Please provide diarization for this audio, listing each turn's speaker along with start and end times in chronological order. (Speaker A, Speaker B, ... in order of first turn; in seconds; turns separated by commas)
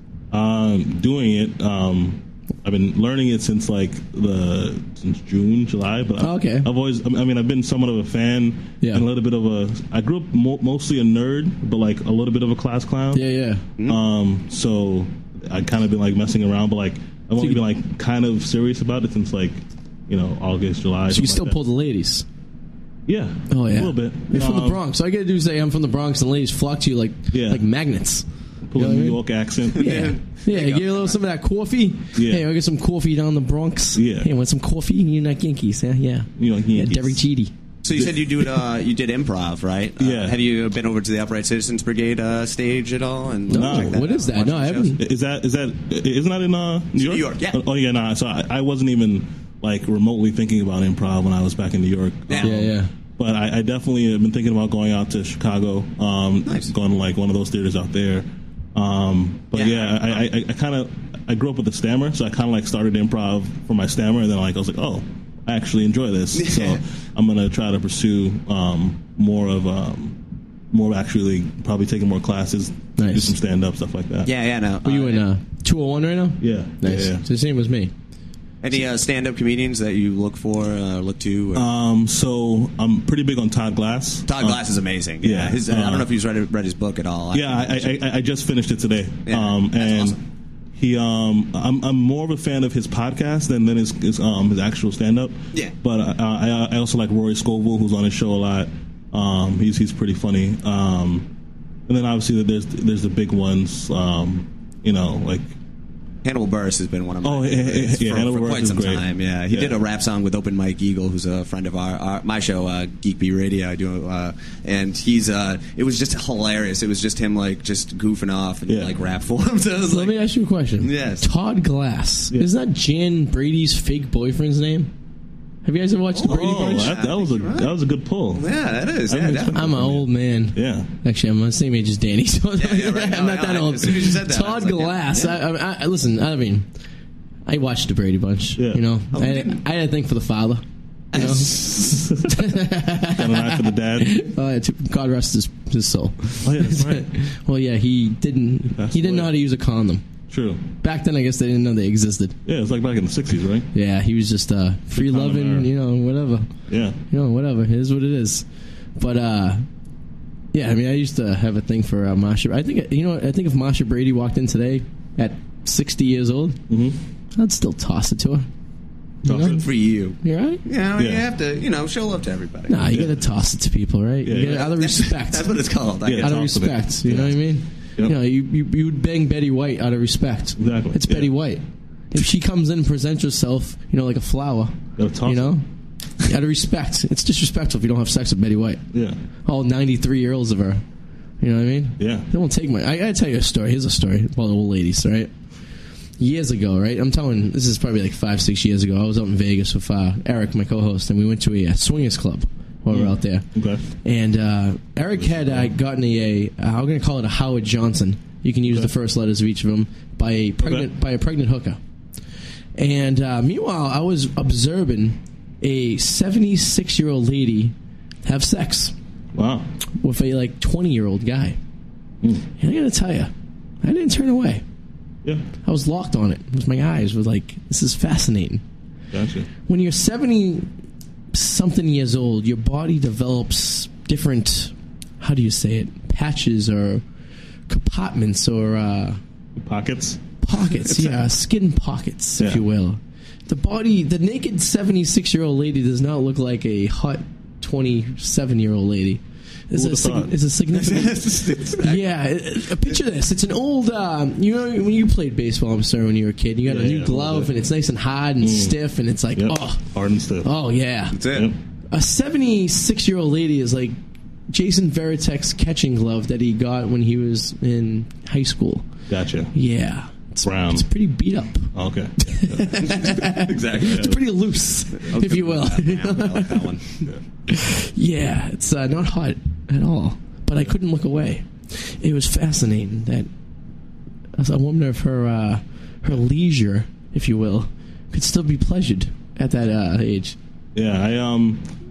Speaker A: 0.3-13.3, Speaker B: 6.2-6.7, Speaker B: 13.1-13.6, Speaker A: 13.8-21.6, Speaker B: 21.1-22.2, Speaker A: 23.1-24.8, Speaker B: 23.5-29.2, Speaker A: 27.3-27.7, Speaker A: 28.7-30.1, Speaker B: 29.8-37.5, Speaker C: 29.8-31.2, Speaker A: 32.1-32.5, Speaker A: 33.9-34.3, Speaker A: 36.4-37.2, Speaker C: 37.8-45.0, Speaker A: 38.0-38.4, Speaker A: 40.0-40.4, Speaker B: 43.5-45.0, Speaker A: 43.5-44.1, Speaker A: 45.0-70.2, Speaker C: 47.0-47.6, Speaker B: 52.4-52.9, Speaker C: 56.5-56.7, Speaker C: 59.5-60.2, Speaker C: 66.3-66.8, Speaker A: 70.7-74.3, Speaker B: 73.0-73.3, Speaker C: 74.2-75.3, Speaker B: 74.8-77.9, Speaker A: 76.4-77.2, Speaker C: 78.6-81.7, Speaker A: 81.5-84.6, Speaker C: 84.3-88.0, Speaker A: 85.2-86.1, Speaker A: 87.3-90.2, Speaker C: 89.3-90.2, Speaker A: 90.8-101.3, Speaker A: 101.9-105.5, Speaker C: 106.2-120.2, Speaker A: 107.2-109.8, Speaker A: 118.7-119.0, Speaker B: 119.8-124.9, Speaker C: 120.8-121.3, Speaker B: 125.7-126.9, Speaker C: 126.1-127.7, Speaker A: 126.2-128.5, Speaker C: 128.3-129.6, Speaker A: 129.1-130.9, Speaker B: 129.5-136.7, Speaker C: 132.6-135.4, Speaker B: 137.5-141.6, Speaker A: 138.6-138.8, Speaker C: 139.1-139.6, Speaker C: 141.1-142.1, Speaker A: 141.9-144.2, Speaker B: 142.3-150.0, Speaker A: 146.4-147.1, Speaker A: 148.7-149.4, Speaker A: 150.3-150.6, Speaker B: 150.8-152.4, Speaker A: 152.4-153.7, Speaker B: 153.7-156.5, Speaker A: 154.9-155.7, Speaker A: 156.7-157.0, Speaker B: 157.1-158.4, Speaker B: 159.0-159.7, Speaker B: 160.5-166.6, Speaker A: 166.7-167.0, Speaker B: 167.3-168.5, Speaker B: 169.2-169.7, Speaker A: 169.2-169.6, Speaker C: 169.3-172.9, Speaker B: 170.2-170.6, Speaker A: 171.0-171.3, Speaker B: 172.7-175.5, Speaker A: 172.9-173.3, Speaker A: 174.2-174.6, Speaker C: 174.4-176.4, Speaker A: 176.0-177.4, Speaker B: 176.2-185.6, Speaker A: 180.6-181.3, Speaker A: 185.0-185.6, Speaker B: 186.2-188.8, Speaker A: 188.9-189.2, Speaker B: 189.5-190.8, Speaker B: 191.4-195.3, Speaker A: 192.0-192.3, Speaker B: 196.2-203.5, Speaker A: 202.9-203.8, Speaker B: 204.0-211.8, Speaker A: 205.1-205.7, Speaker A: 210.6-210.9, Speaker B: 212.8-217.7, Speaker B: 218.2-218.9, Speaker A: 219.3-219.7, Speaker B: 220.0-221.6, Speaker B: 222.6-223.3, Speaker B: 223.8-224.6, Speaker B: 225.6-228.6, Speaker A: 229.1-229.5, Speaker B: 229.7-230.7, Speaker B: 231.3-237.0, Speaker B: 237.7-239.2, Speaker A: 239.6-240.2, Speaker B: 240.4-259.8, Speaker A: 242.4-242.6, Speaker A: 249.7-250.3, Speaker C: 250.7-252.1, Speaker A: 256.6-257.5, Speaker A: 258.4-258.8, Speaker A: 259.3-260.5, Speaker B: 260.4-261.2, Speaker C: 261.1-261.5, Speaker A: 261.3-261.6, Speaker B: 261.9-264.0, Speaker B: 264.5-268.9, Speaker A: 269.1-269.5, Speaker B: 269.5-276.7, Speaker A: 270.4-270.9, Speaker A: 271.7-273.2, Speaker C: 272.8-274.2, Speaker A: 273.8-274.2, Speaker C: 275.0-276.9, Speaker B: 277.5-283.3, Speaker B: 284.4-290.4, Speaker A: 290.8-291.6